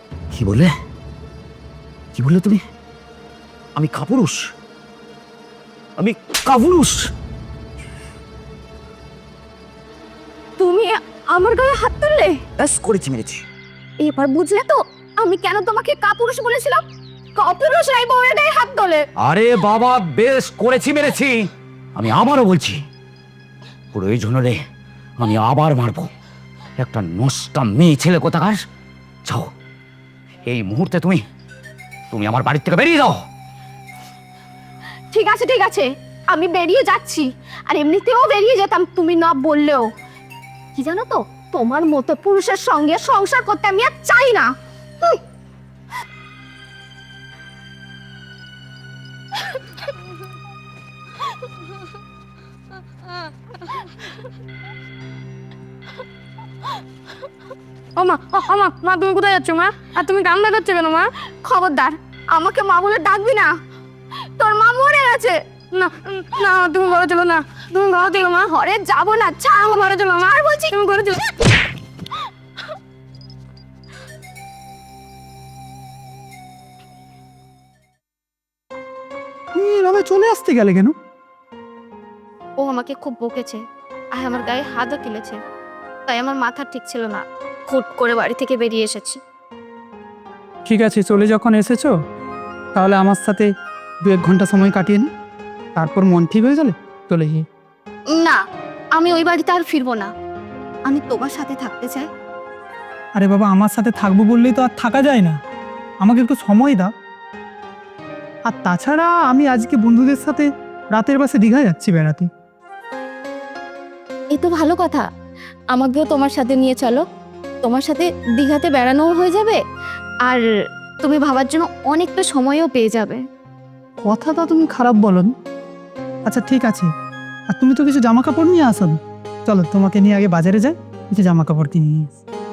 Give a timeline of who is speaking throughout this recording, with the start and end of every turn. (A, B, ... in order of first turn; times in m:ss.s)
0:00.3-0:00.7 A
0:02.2-0:02.6 A
0:03.8-0:04.4 A
0:06.0-0:07.1 A
0:10.6-0:12.4 B
0:12.6-0:13.4 A
0:14.0-0:16.8 B
0:17.4-0:19.0 B
0:19.2-0:22.8 A
0:23.9-0:24.6 A
0:25.2-0:26.1 A
0:26.8-0:28.6 A
0:30.4-0:31.2 A
0:32.1-0:33.2 A
0:35.1-0:39.9 B
0:40.8-0:44.5 B
0:58.0-1:01.1 C
1:01.4-1:03.5 B
1:04.4-1:05.4 B
1:05.7-1:07.5 C
1:07.6-1:10.8 B
1:10.7-1:11.3 C
1:19.5-1:20.9 D
1:22.6-1:23.6 B
1:24.1-1:25.4 B
1:26.1-1:29.2 B
1:30.7-1:32.0 D
1:32.7-1:33.5 D
1:34.0-1:35.1 D
1:35.8-1:37.5 D
1:38.1-1:38.4 B
1:38.9-1:40.1 B
1:40.8-1:42.1 B
1:43.2-1:45.4 D
1:46.0-1:46.9 D
1:48.5-1:52.3 D
1:54.3-1:55.1 B
1:55.7-1:57.0 B
1:57.6-1:59.6 B
2:01.0-2:03.2 B
2:04.0-2:05.3 D
2:06.2-2:06.9 D
2:07.5-2:12.2 D